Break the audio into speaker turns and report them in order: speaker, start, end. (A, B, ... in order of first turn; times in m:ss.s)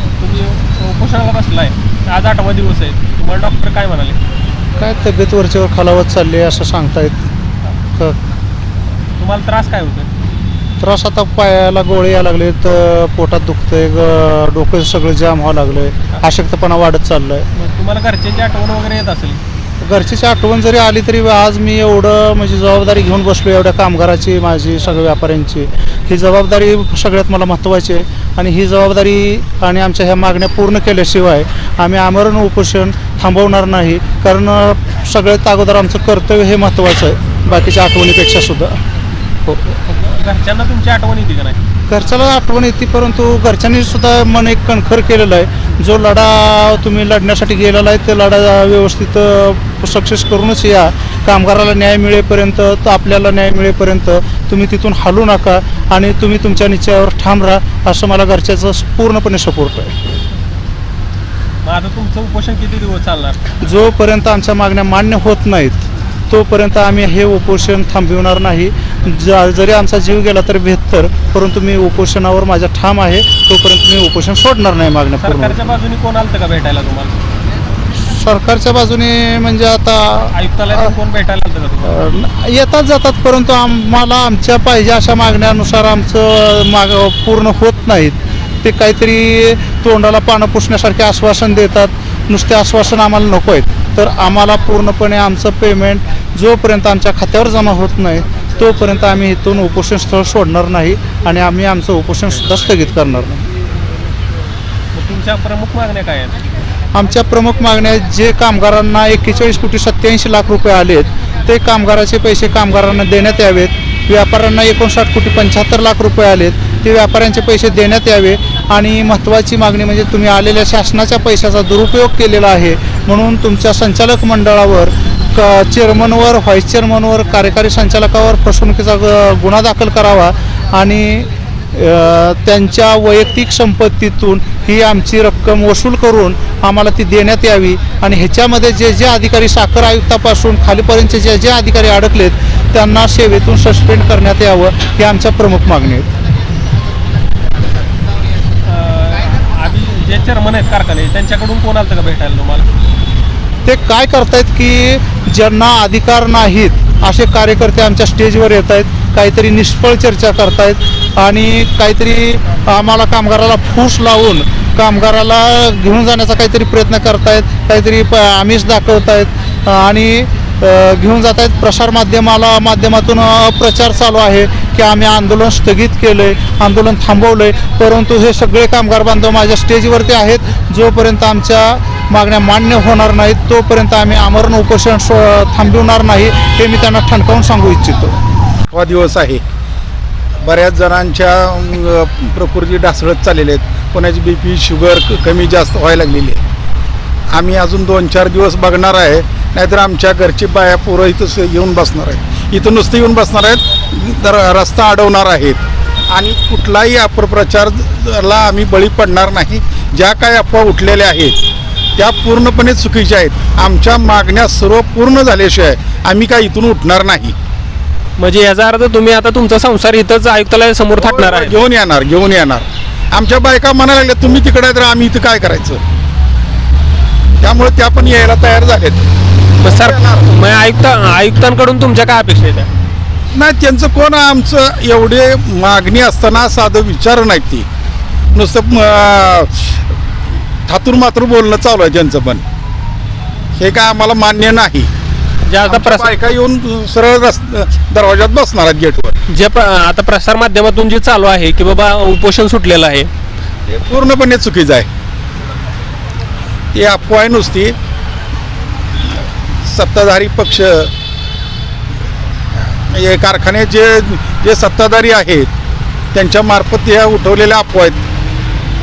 0:00.2-0:04.2 A
0:04.8-0:07.3 B
0:09.2-0:10.1 A
0:10.8-0:17.5 B
0:17.6-0:19.4 A
0:19.8-0:38.8 B
0:39.5-0:39.8 B
0:39.9-0:41.6 A
0:41.9-1:00.0 B
1:01.6-1:03.4 A
1:03.6-1:15.7 B
1:15.2-1:17.2 A
1:18.0-1:20.9 B
1:20.3-1:22.1 A
1:21.8-1:43.5 B
1:44.9-1:46.4 A
1:46.9-2:26.1 B
2:28.6-2:32.7 A
2:33.7-3:08.2 B
3:08.7-3:09.4 C
3:10.4-3:16.4 C
3:17.3-3:31.4 C
3:32.0-3:37.4 C
3:38.2-3:41.6 A
3:41.0-3:45.8 C
3:47.4-3:49.0 C
3:49.6-3:52.7 A
3:49.6-3:50.3 C
3:53.3-3:57.7 C
3:58.3-3:59.8 C
4:00.7-4:02.4 C
4:03.6-4:04.9 C
4:05.5-4:06.1 A
4:05.6-4:09.2 C
4:09.3-4:13.1 A
4:13.7-4:14.9 C
4:16.7-4:17.8 C
4:19.0-4:20.9 C
4:22.9-4:25.5 C
4:26.1-4:28.0 C